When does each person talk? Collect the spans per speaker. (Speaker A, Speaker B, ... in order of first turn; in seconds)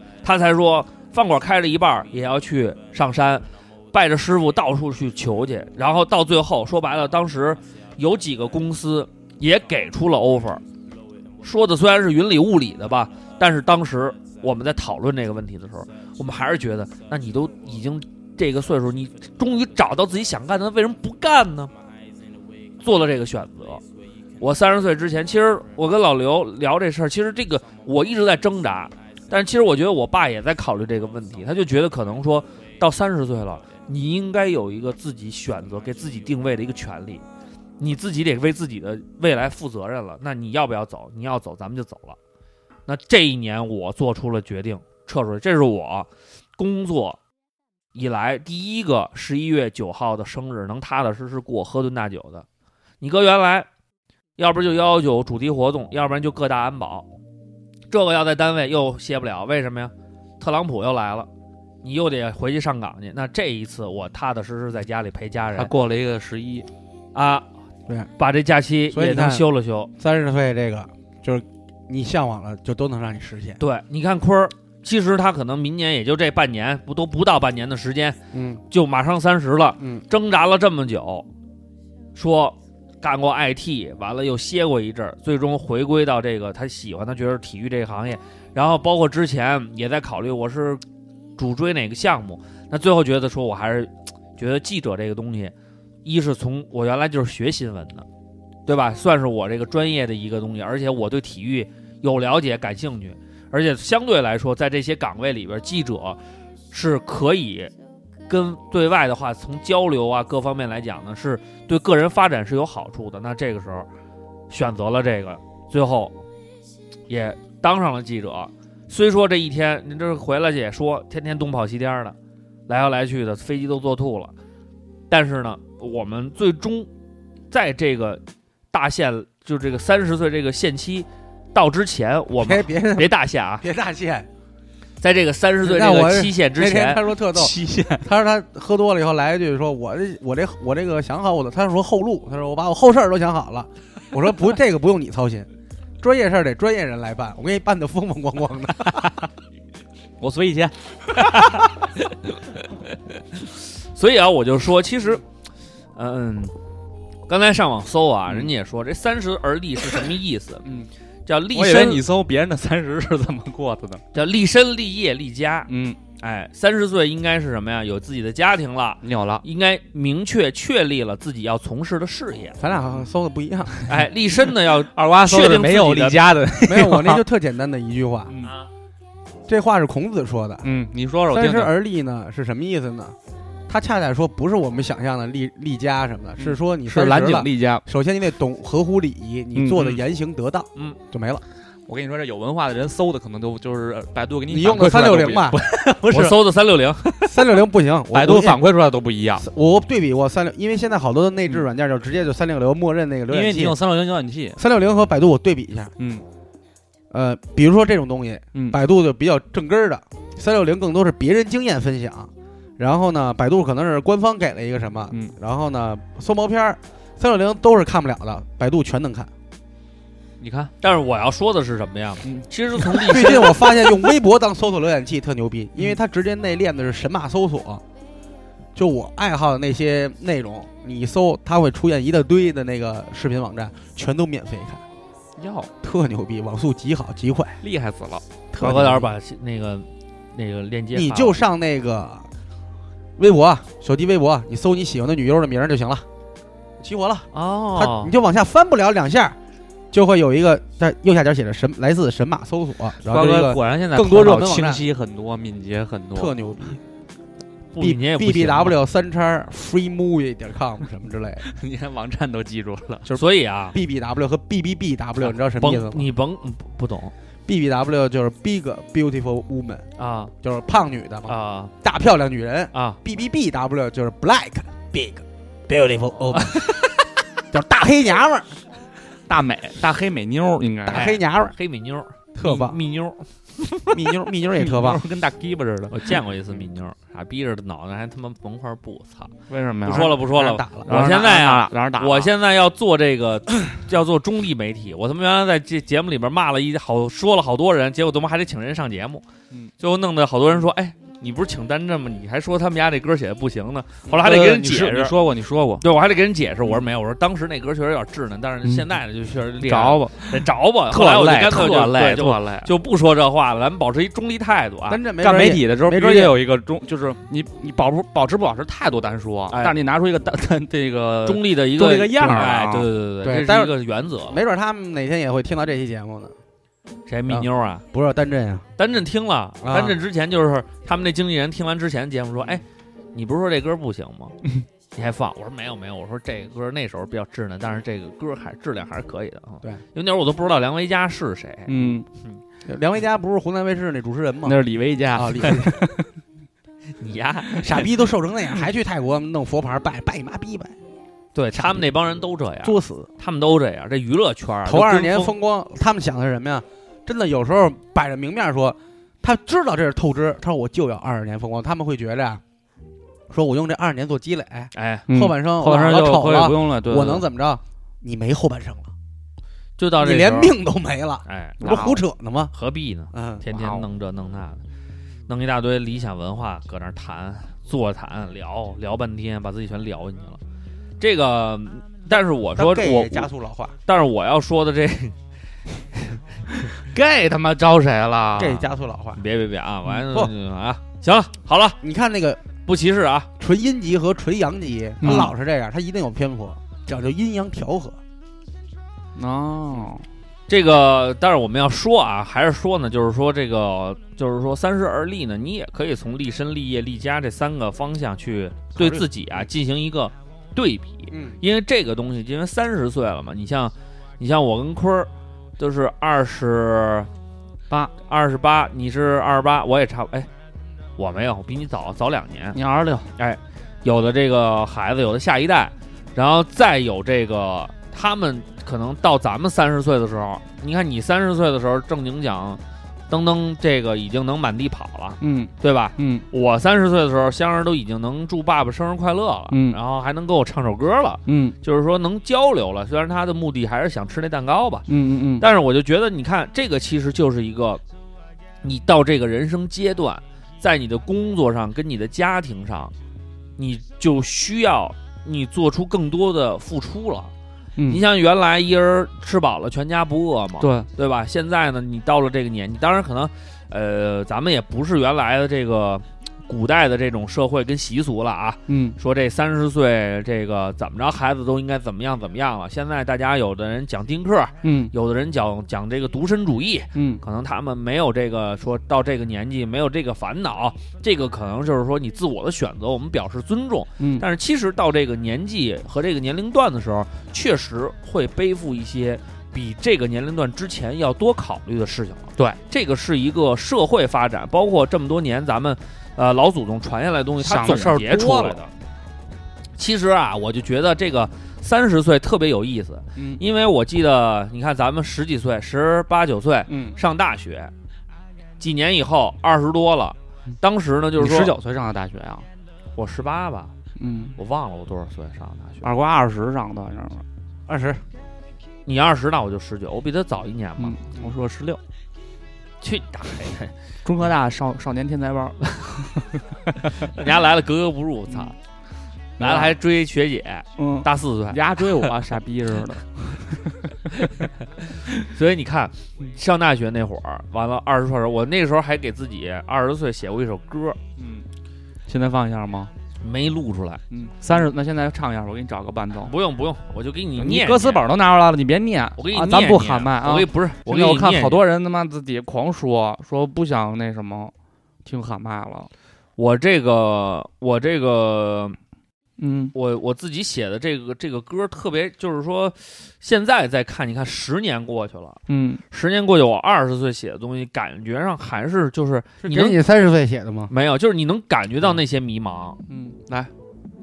Speaker A: 0.2-10.6, 11.4-21.7, 22.8-23.8, 24.4-37.2, 37.8-42.2, 42.9-47.2, 47.9-52.5, 53.0-53.7, 54.4-57.1, 57.9-61.3, 61.8-65.7, 67.1-67.5, 68.2-69.9, 73.6-78.2, 78.7-81.3, 82.1-90.8, 91.4-98.0, 98.7-106.2, 106.7-107.7, 108.3-113.9, 114.5-116.1, 117.1-122.2, 122.7-124.3, 125.1-126.9, 127.5-133.7, 135.0-137.0, 151.1-155.2, 156.0-156.5, 157.3-160.6, 161.3-162.0, 164.1-172.6, 173.9-176.2, 196.1-197.3, 220.8-223.7, 238.6-241.4, 247.3-248.1, 257.7-258.8, 263.1-263.8, 265.3-267.1, 270.0-270.3, 271.3-271.7, 272.7-273.0, 276.5-276.8, 280.9-283.3, 285.9-289.3, 289.9-299.2, 299.8-305.1, 305.8-315.0, 319.5-319.8, 321.2-324.4, 327.1-327.8, 328.8-332.6, 333.1-334.3, 335.0-342.4, 347.0-347.8, 351.3-355.3, 364.7-365.1, 369.8-370.6, 371.2-371.9, 372.5-374.6, 375.3-380.4, 381.0-383.3, 383.9-385.1, 385.9-386.2, 389.1-391.8, 392.6-393.3, 400.5-417.1, 418.0-420.3, 421.0-422.6, 423.2-444.8, 445.4-447.8, 448.6-452.9, 453.6-457.3, 457.9-498.7, 499.8-507.7, 508.6-511.5, 513.0-513.7, 514.4-515.9, 518.9-521.0, 522.8-523.8, 526.9-528.5, 529.4-532.1, 535.0-541.0, 543.2-544.0, 546.2-548.0, 549.2-551.6, 556.4-558.8, 559.7-565.4, 565.9-569.8, 570.7-572.8
Speaker B: 65.5-66.7, 137.3-138.1, 150.2-151.7, 160.6-160.9, 161.5-164.0, 165.7-166.0, 169.0-169.4, 174.9-177.2, 180.6-181.7, 186.4-187.8, 189.5-190.0, 191.9-196.4, 198.1-199.5, 203.3-204.6, 206.0-206.2, 208.5-208.8, 220.4-220.7, 222.2-223.5, 235.4-235.7, 237.6-238.2, 253.0-256.3, 261.4-263.1, 279.3-281.1, 283.9-286.2, 289.5-290.3, 290.9-292.3, 304.1-305.8, 309.6-312.7, 315.2-322.9, 341.7-342.1, 344.4-346.1, 365.1-367.3, 371.6-372.0, 373.5-373.8, 386.7-388.6, 395.0-395.3, 399.2-400.0, 422.5-423.1, 435.2-436.2, 439.5-439.8, 441.3-441.5, 444.9-445.5, 457.8-458.0, 460.6-460.9, 468.7-469.0, 474.6-474.9, 476.9-477.2, 484.0-484.2, 497.4-498.7, 503.1-503.4, 506.7-507.0, 511.1-512.5, 514.0-514.4, 515.8-517.2, 520.8-521.8, 524.0-527.1, 529.4-529.8, 530.8-534.5, 541.2-541.5, 542.1-542.9, 544.1-546.3, 547.4-554.5, 555.0-555.9, 559.4-559.7, 565.5-565.8, 572.9-573.5
Speaker C: 68.9-69.5, 70.0-73.6, 78.3-78.6, 79.8-80.0, 132.4-134.3, 135.6-145.5, 146.0-149.3, 172.6-173.8, 176.6-178.3, 179.5-180.7, 181.3-183.2, 183.7-191.4, 194.5-195.6, 197.3-198.6, 199.4-203.8, 204.6-205.9, 207.1-219.3, 223.1-227.8, 228.8-234.8, 235.8-237.6, 238.5-239.1, 240.9-242.3, 243.2-246.1, 246.8-249.4, 249.9-254.8, 256.1-256.8, 257.8-261.5, 263.1-266.1, 267.5-269.9, 270.4-276.9, 277.4-278.6, 280.9-281.6, 282.3-282.8, 283.9-285.0, 289.9-290.9, 314.9-316.4, 323.2-326.3, 327.3-328.6, 329.6-330.0, 342.6-344.6, 345.1-345.8, 347.6-350.8, 352.6-353.1, 354.6-362.4, 363.3-368.9, 370.0-372.5, 373.1-373.4, 382.6-383.8, 388.4-389.2, 391.8-392.4, 393.4-398.0, 408.8-409.1, 411.1-411.4, 517.7-518.0, 569.4-570.7